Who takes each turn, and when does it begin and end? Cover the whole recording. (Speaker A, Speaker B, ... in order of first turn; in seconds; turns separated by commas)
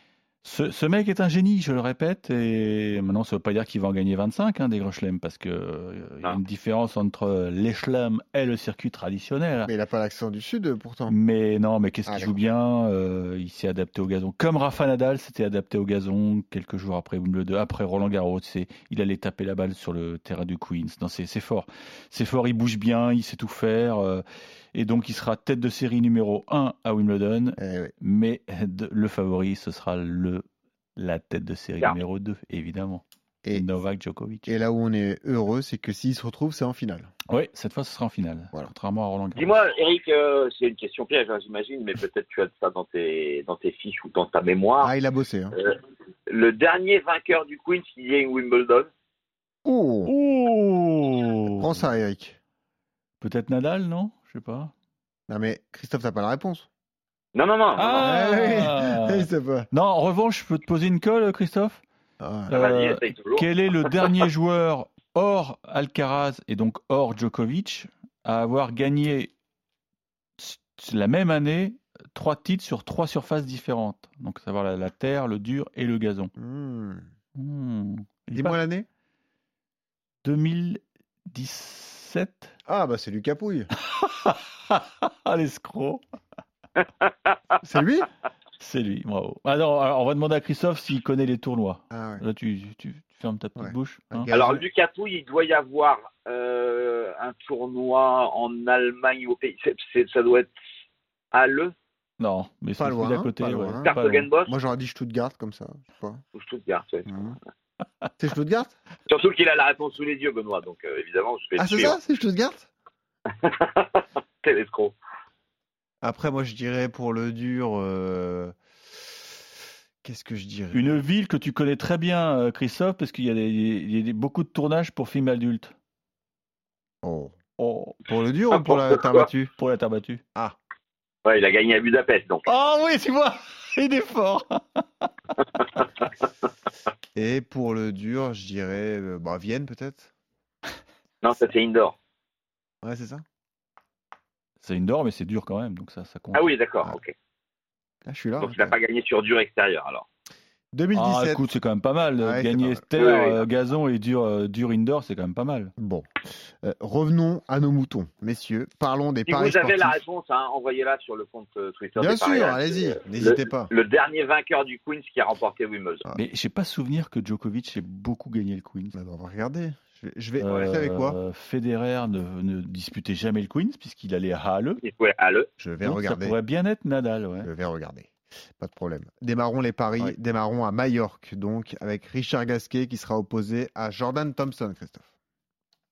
Speaker A: 0.4-9.7, Speaker B: 9.7-11.2, Speaker A: 11.1-30.4, Speaker B: 12.1-12.4, Speaker B: 27.6-27.9, Speaker A: 30.9-34.5, Speaker B: 33.4-33.7, Speaker B: 34.5-37.1, Speaker A: 37.3-39.6, Speaker C: 39.3-44.9, Speaker B: 44.8-45.6, Speaker C: 45.5-48.9, Speaker B: 49.6-50.1, Speaker A: 50.0-51.9, Speaker B: 51.5-52.4, Speaker A: 53.2-54.7, Speaker B: 55.3-56.7, Speaker C: 57.3-58.0, Speaker A: 57.8-61.8, Speaker B: 57.9-59.7, Speaker B: 62.2-62.5, Speaker C: 62.5-64.2, Speaker A: 62.5-69.3, Speaker A: 70.4-76.3, Speaker B: 76.4-77.0, Speaker A: 77.3-78.6, Speaker B: 78.3-78.8, Speaker A: 80.2-82.5, Speaker B: 82.7-83.7, Speaker A: 83.7-86.0, Speaker C: 86.8-87.6, Speaker B: 87.6-88.1, Speaker A: 88.6-94.3, Speaker B: 91.9-92.2, Speaker B: 93.6-94.6, Speaker C: 94.3-100.5, Speaker C: 101.3-101.7, Speaker A: 102.2-104.3, Speaker B: 102.8-106.2, Speaker C: 103.8-104.5, Speaker C: 106.3-107.1, Speaker B: 107.0-107.4, Speaker B: 108.2-108.8, Speaker C: 109.1-112.0, Speaker B: 111.6-112.7, Speaker C: 113.3-115.0, Speaker B: 116.0-118.5, Speaker B: 120.0-121.0, Speaker A: 120.7-125.7, Speaker B: 127.0-127.3, Speaker A: 127.6-128.1, Speaker B: 128.0-129.5, Speaker C: 128.5-129.3, Speaker A: 129.4-130.2, Speaker C: 131.2-132.4, Speaker A: 132.4-135.8, Speaker C: 135.6-136.1, Speaker B: 137.1-140.1, Speaker C: 141.2-141.9, Speaker B: 142.8-143.2, Speaker A: 144.6-146.6, Speaker C: 146.3-147.1, Speaker B: 148.1-148.8, Speaker C: 148.4-150.1, Speaker B: 150.7-151.4, Speaker A: 150.9-155.7, Speaker B: 152.2-152.8, Speaker C: 152.9-153.5, Speaker B: 155.8-160.0, Speaker C: 159.3-166.1, Speaker B: 161.9-163.7, Speaker A: 166.1-168.9, Speaker B: 168.9-171.2, Speaker A: 170.4-174.8, Speaker C: 170.4-170.8, Speaker C: 174.8-175.5, Speaker B: 175.6-176.4, Speaker A: 175.8-177.5, Speaker B: 177.4-185.0